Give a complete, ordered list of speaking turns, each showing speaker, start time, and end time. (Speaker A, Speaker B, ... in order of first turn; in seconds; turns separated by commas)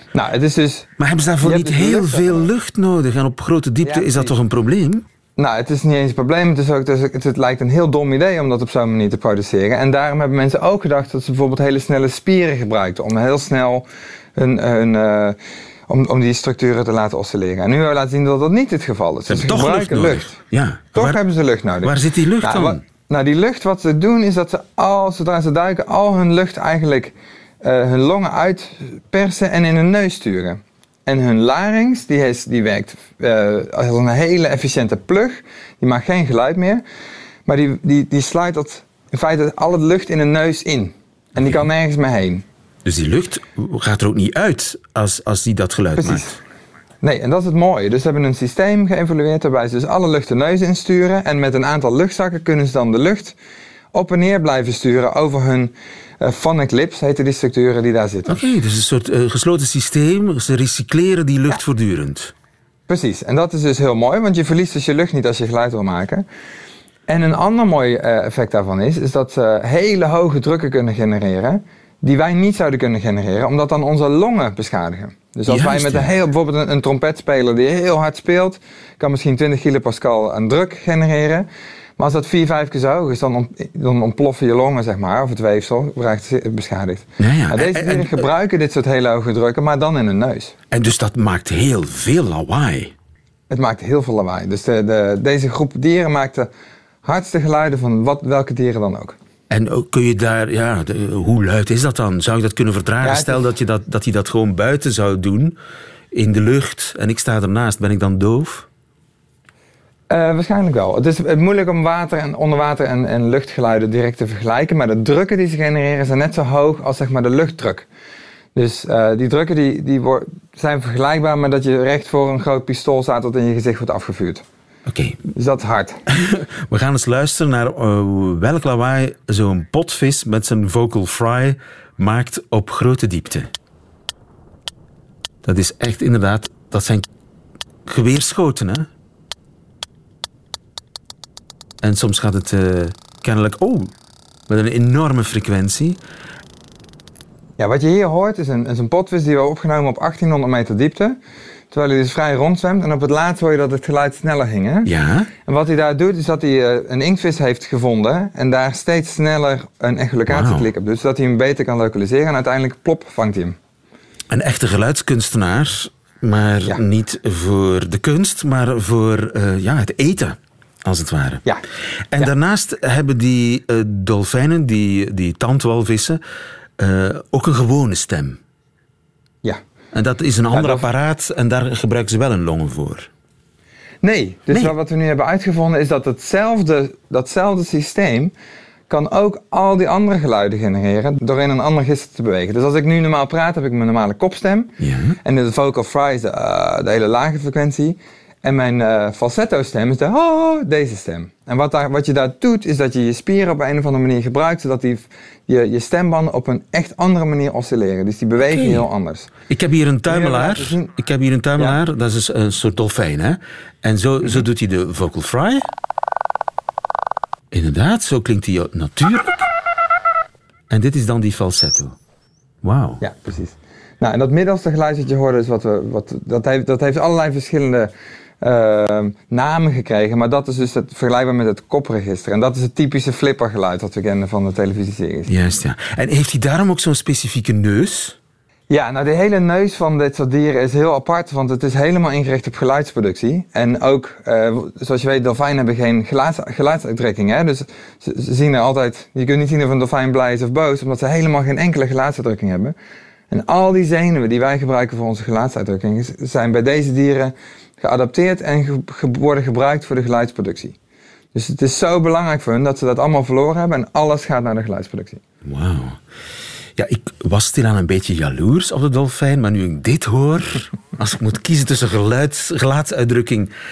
Speaker A: 0.1-0.9, Speaker B: 1.0-5.0, Speaker A: 1.4-2.5, Speaker A: 3.8-4.3, Speaker A: 5.4-20.3, Speaker B: 19.3-21.2, Speaker A: 20.9-36.8, Speaker B: 21.8-22.8, Speaker A: 37.5-42.4, Speaker B: 42.9-46.4, Speaker A: 46.0-46.2, Speaker A: 47.0-53.4, Speaker A: 53.9-58.5, Speaker B: 58.3-62.3, Speaker A: 62.9-66.3, Speaker A: 67.1-90.5, Speaker B: 75.5-76.2, Speaker B: 87.2-88.3, Speaker B: 90.7-92.9, Speaker A: 93.5-96.5, Speaker A: 97.0-99.2, Speaker B: 99.5-105.6, Speaker A: 103.0-103.5, Speaker B: 106.1-108.7, Speaker A: 110.1-117.9, Speaker A: 118.5-124.4, Speaker B: 124.9-125.2, Speaker A: 125.4-126.0, Speaker B: 126.1-133.5, Speaker B: 135.4-137.1, Speaker B: 137.9-138.9, Speaker B: 141.8-143.9, Speaker B: 144.5-146.0, Speaker A: 147.6-151.2, Speaker A: 151.7-154.9, Speaker B: 154.8-155.3, Speaker A: 155.5-163.6, Speaker B: 160.3-160.7, Speaker B: 164.3-171.4, Speaker B: 172.1-176.2, Speaker B: 176.8-178.4, Speaker B: 179.9-183.1, Speaker A: 180.5-180.8, Speaker A: 184.0-188.3, Speaker A: 188.9-194.7, Speaker B: 194.8-195.2, Speaker A: 195.2-209.3, Speaker B: 208.5-208.9, Speaker B: 209.5-215.7, Speaker A: 210.1-210.9, Speaker B: 217.5-219.5, Speaker B: 220.7-221.9, Speaker B: 222.6-223.0, Speaker A: 223.0-235.3, Speaker B: 235.3-238.2, Speaker A: 238.7-252.8, Speaker A: 253.3-260.8, Speaker A: 261.3-265.2, Speaker B: 265.4-266.0, Speaker B: 266.8-273.5